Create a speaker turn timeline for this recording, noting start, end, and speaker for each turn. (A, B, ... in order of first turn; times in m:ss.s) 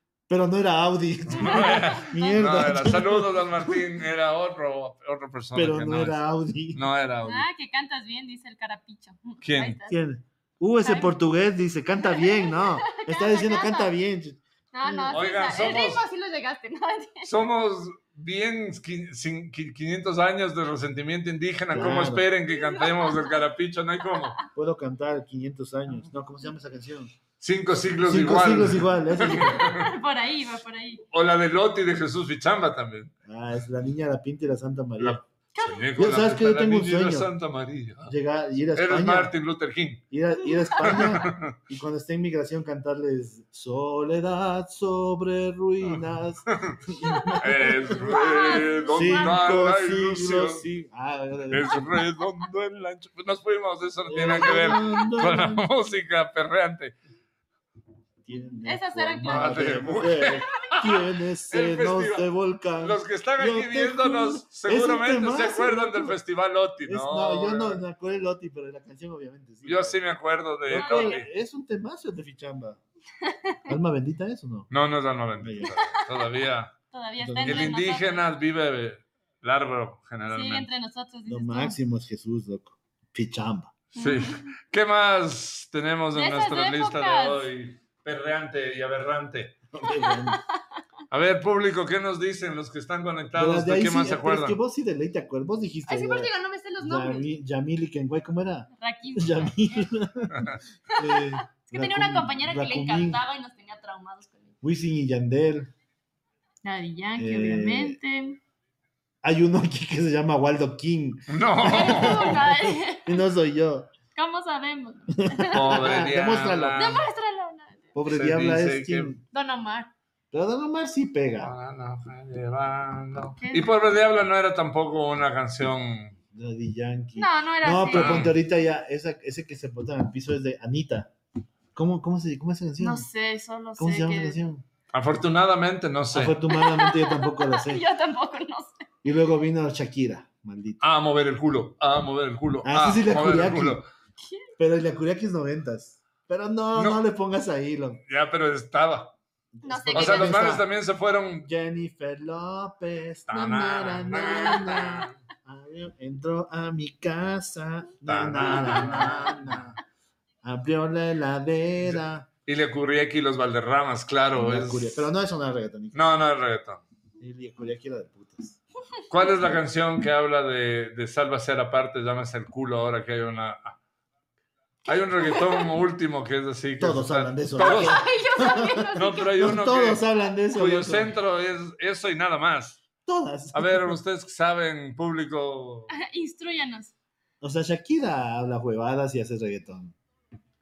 0:00.3-0:03.8 A
0:01.3-0:07.5 B
0:01.4-0:02.4 C
0:05.6-0:06.8 A
0:07.2-0:10.0 C
0:09.4-0:09.8 B
0:09.9-0:15.2 A
0:10.8-0:11.2 C
0:12.0-0:13.9 C
0:14.7-0:17.4 C
0:15.1-0:16.0 B
0:17.2-0:24.4 B
0:21.7-0:22.3 A
0:22.5-0:23.4 C
0:24.0-0:24.5 C
0:24.5-0:27.2 A
0:27.4-0:29.9 B
0:28.0-0:29.6 A
0:29.2-0:31.0 C
0:31.1-0:33.1 B
0:33.3-0:35.2 A
0:35.0-0:38.1 B
0:35.6-0:35.9 C
0:36.0-0:37.3 A
0:38.1-0:39.3 A
0:38.7-0:40.0 B
0:40.1-0:48.2 A
0:40.8-0:41.6 B
0:45.8-0:46.8 B
0:47.4-0:50.6 B
0:47.9-0:49.5 C
0:48.9-0:52.0 A
0:51.5-0:57.0 B
0:54.1-0:55.6 A
0:54.2-0:55.0 C
0:58.2-1:06.2 A
0:58.6-1:00.9 C
0:59.3-1:02.3 B
1:02.8-1:07.8 B
1:06.8-1:10.0 A
1:09.6-1:11.3 B
1:10.7-1:12.8 A
1:10.8-1:11.2 C
1:13.2-1:13.8 C
1:13.7-1:14.7 A
1:14.7-1:16.7 B
1:15.4-1:15.9 A
1:15.6-1:18.3 C
1:17.2-1:17.8 A
1:17.4-1:20.7 B
1:20.3-1:21.8 C
1:21.3-1:23.7 A
1:23.9-1:29.6 B
1:24.0-1:24.5 C
1:26.1-1:27.5 C
1:29.7-1:30.4 A
1:30.1-1:30.4 C
1:31.1-1:34.6 B
1:33.4-1:43.2 A
1:35.9-1:37.3 C
1:38.8-1:39.8 C
1:40.9-1:44.6 C
1:44.6-1:45.7 A
1:46.6-1:48.4 C
1:47.2-1:48.0 A
1:49.2-1:53.9 A
1:51.3-1:52.4 B
1:51.6-1:53.3 C
1:54.2-1:55.8 C
1:55.2-1:57.1 A
1:55.5-1:57.0 B
1:56.8-1:58.0 C
1:58.0-1:59.2 A
1:58.1-1:59.1 B
1:59.3-1:59.9 C
2:00.3-2:01.5 A
2:01.4-2:06.2 B
2:03.4-2:03.7 C
2:06.3-2:11.1 A
2:07.2-2:08.3 C
2:07.9-2:08.4 B
2:11.8-2:13.1 A
2:12.8-2:14.4 C
2:13.8-2:14.6 A
2:14.9-2:16.4 B
2:16.1-2:17.8 A
2:16.5-2:18.9 C
2:19.0-2:20.8 A
2:20.8-2:23.8 B
2:22.6-2:23.8 A
2:24.2-2:24.5 C
2:24.6-2:28.0 A
2:26.8-2:27.0 B
2:28.1-2:29.2 B
2:29.5-2:30.7 A
2:29.6-2:30.6 C
2:29.9-2:31.5 B
2:31.5-2:39.8 A
2:33.3-2:35.2 B
2:33.3-2:35.1 C
2:38.1-2:39.6 B
2:38.5-2:39.6 C
2:40.4-2:42.3 A
2:41.8-2:45.1 B
2:44.4-2:46.0 A
2:45.9-2:46.8 B
2:47.2-2:48.6 A
2:49.1-2:53.8 B
2:54.8-2:58.0 B
2:55.2-2:55.7 C
2:56.8-3:01.2 A
2:57.6-2:59.3 C
2:59.0-3:02.8 B
3:03.1-3:04.0 A
3:03.5-3:06.0 B
3:05.9-3:06.9 C
3:07.4-3:10.0 A